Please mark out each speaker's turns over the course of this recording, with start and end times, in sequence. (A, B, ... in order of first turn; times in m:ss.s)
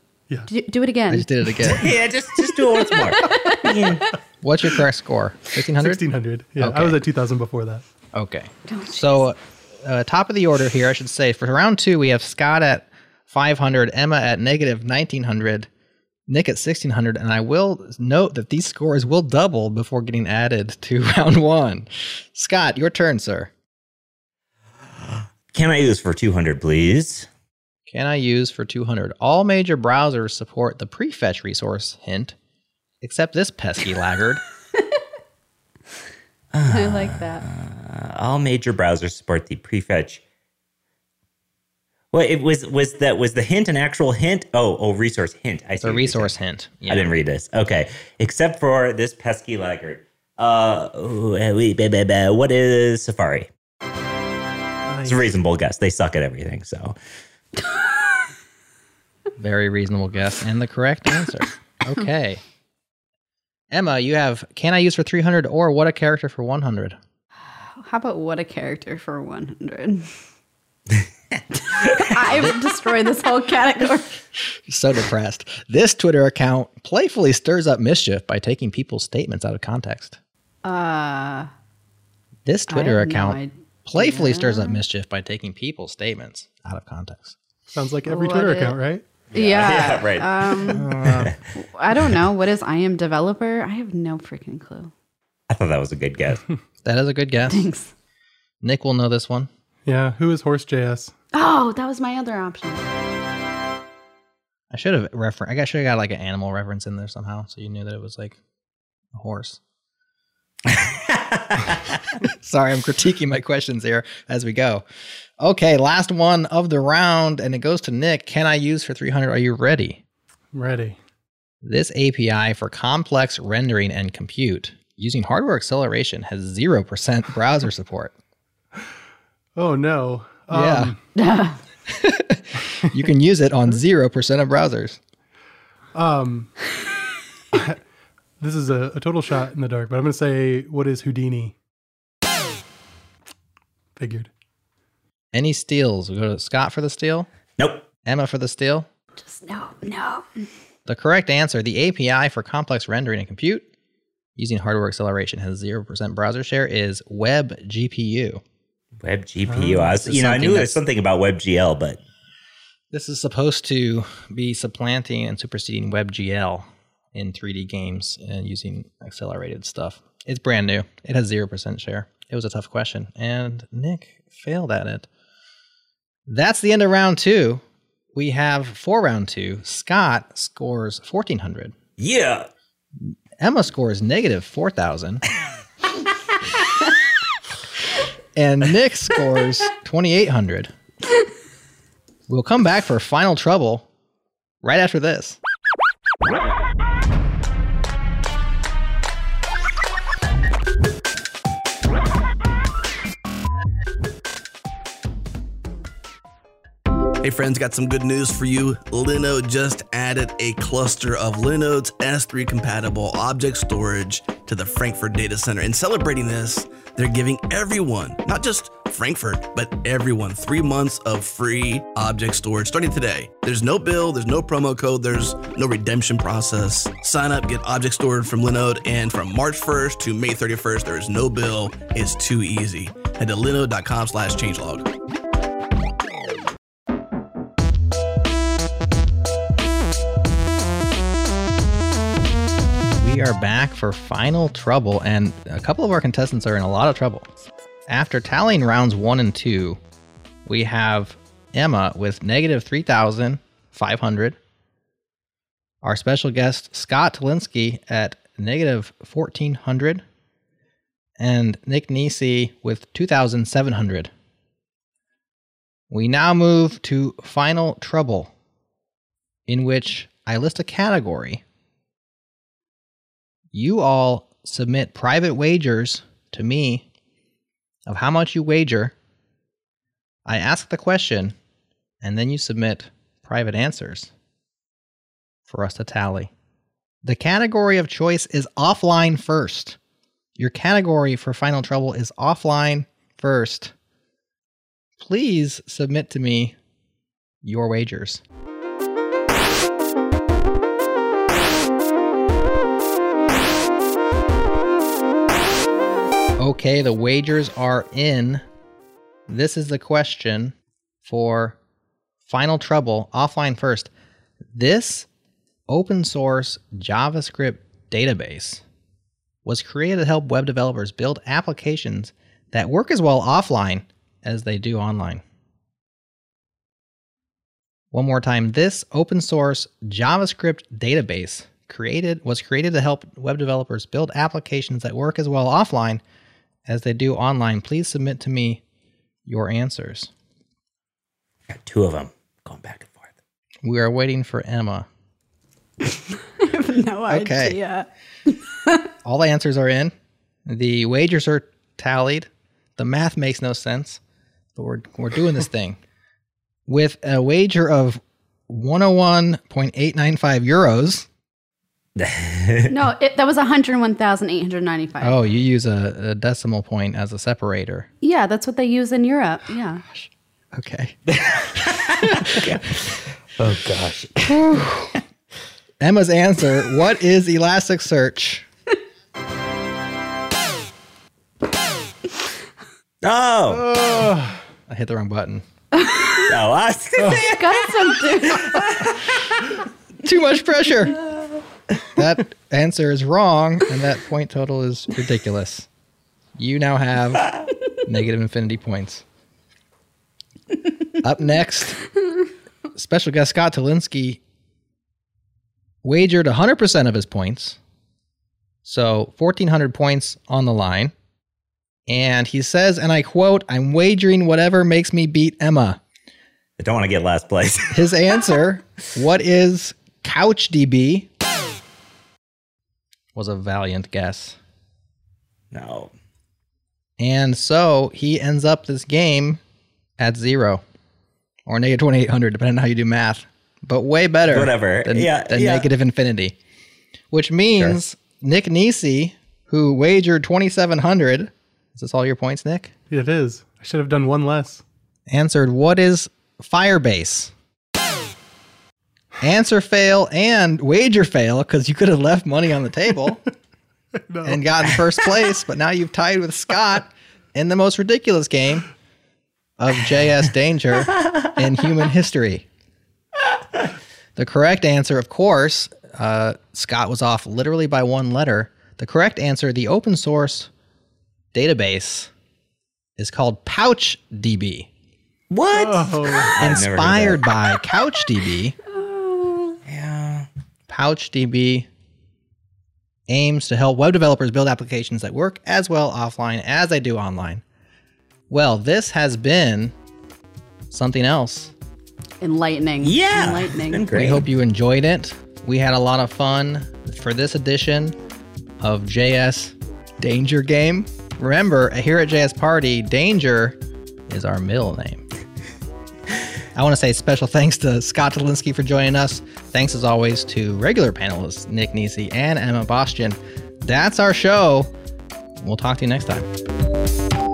0:00.5-0:01.3 A
0:01.1-0:02.0 B
0:01.6-0:04.1 C
0:02.7-0:04.1 A
0:04.4-0:06.0 B
0:05.8-0:07.8 D
0:06.6-0:07.0 B
0:08.1-0:15.7 B
0:08.7-0:09.2 A
0:16.3-0:23.5 B
0:25.0-0:27.3 C
0:27.9-0:32.4 B
0:33.0-0:34.4 B
0:36.5-0:40.2 C
0:36.7-0:37.4 A
0:42.1-0:46.3 C
0:45.8-0:47.2 B
0:46.9-0:53.5 C
0:54.9-0:55.2 D
0:55.0-0:57.0 C
0:59.4-1:02.4 B
1:03.7-1:07.0 B
1:07.8-1:10.1 A
1:11.6-1:14.1 A
1:11.8-1:12.2 C
1:14.7-1:20.2 B
1:20.6-1:21.5 A
1:22.4-1:27.4 B
1:22.7-1:24.8 A
1:27.7-1:29.0 D
1:28.1-1:28.7 A
1:29.3-1:30.9 A
1:29.3-1:31.4 C
1:30.7-1:31.4 B
1:31.6-1:34.9 A
1:35.5-1:36.4 C
1:36.8-1:37.7 B
1:37.5-1:37.9 A
1:38.6-1:39.5 B
1:39.9-1:41.1 D
1:41.3-1:42.8 A
1:44.7-1:48.4 B
1:49.1-1:49.6 B
1:50.7-1:52.0 C
1:52.4-1:54.8 B
1:55.4-2:00.0 B
2:00.5-2:01.0 D
2:01.6-2:08.1 B
2:09.6-2:11.0 D
2:10.5-2:10.9 B
2:11.2-2:11.6 A
2:11.9-2:15.0 B
2:15.9-2:16.5 D
2:17.5-2:17.8 D
2:18.4-2:21.6 D
2:24.0-2:24.3 D
2:25.3-2:27.3 B
2:27.6-2:27.9 C
2:28.0-2:28.9 B
2:29.2-2:30.2 A
2:30.9-2:33.7 B
2:34.4-2:38.4 B
2:39.0-2:42.0 C
2:39.5-2:39.9 D
2:39.8-2:40.8 B
2:42.9-2:55.1 B
2:56.3-2:57.6 B
2:58.1-3:01.7 B
3:02.0-3:02.5 C
3:03.1-3:05.2 B
3:08.4-3:10.7 B
3:12.3-3:13.9 B
3:14.6-3:15.4 B
3:27.2-3:54.9 E
4:03.0-4:07.3 B
4:07.9-4:09.8 B
4:10.4-4:14.4 B
4:15.8-4:20.0 B
4:21.2-4:24.1 B
4:25.9-4:28.3 B
4:29.5-4:31.4 B
4:33.5-4:36.9 B
4:37.9-4:38.9 B
4:40.3-4:41.4 B
4:42.0-4:44.1 B
4:45.5-4:46.3 B
4:47.0-4:49.8 B
4:50.4-4:53.7 B
4:55.0-4:56.6 B
4:57.4-4:58.2 B
5:06.4-5:08.4 B
5:09.3-5:11.6 B
5:12.2-5:13.9 B
5:14.5-5:15.1 B
5:15.7-5:18.6 B
5:19.4-5:25.2 B
5:27.9-5:36.0 B
5:36.7-5:38.6 B
5:39.3-5:40.1 B
5:41.5-5:43.1 C
5:43.6-5:44.9 B
5:46.4-5:48.9 A
5:47.1-5:47.6 B
5:49.0-5:49.9 B
5:50.4-5:54.0 B
5:54.6-5:55.8 B
5:56.7-6:01.1 B
6:02.0-6:02.8 C
6:02.7-6:05.2 A
6:05.0-6:07.9 B
6:08.0-6:09.8 A
6:10.5-6:11.0 B
6:11.1-6:14.6 C
6:11.6-6:12.5 B
6:14.3-6:15.0 B
6:15.8-6:18.5 B
6:23.0-6:23.8 C
6:23.5-6:24.4 D
6:24.7-6:25.4 B
6:25.8-6:26.4 A
6:26.3-6:28.8 C
6:27.0-6:27.3 D
6:27.1-6:29.0 A
6:30.0-6:31.0 B
6:31.9-6:35.7 B
6:36.4-6:39.0 B
6:41.0-6:41.8 B
6:42.7-6:44.2 B
6:45.8-6:47.6 B
6:48.6-6:50.9 B
6:51.9-6:55.8 B
6:56.6-6:58.2 C
6:57.7-7:01.1 B
7:03.1-7:04.4 B
7:05.5-7:05.9 C
7:07.0-7:09.4 B
7:10.0-7:10.6 B
7:11.5-7:16.4 B
7:14.3-7:15.7 C
7:17.1-7:22.7 B
7:22.9-7:24.6 D
7:25.1-7:27.3 B
7:29.2-7:33.2 B
7:34.0-7:34.8 D
7:34.2-7:38.7 B
7:39.6-7:42.5 B
7:44.2-7:50.5 B
7:51.3-7:52.1 B
7:53.0-7:54.7 B
7:55.3-7:57.3 C
7:55.5-7:56.4 D
7:56.4-7:58.6 B
7:58.7-7:59.6 A
7:59.6-8:00.3 C
8:00.7-8:01.7 B
8:03.1-8:07.4 B
8:08.3-8:09.7 B
8:10.7-8:11.5 B
8:12.2-8:13.8 A
8:12.8-8:14.2 C
8:13.9-8:18.0 B
8:18.6-8:25.0 B
8:26.6-8:34.7 B
8:35.4-8:36.3 B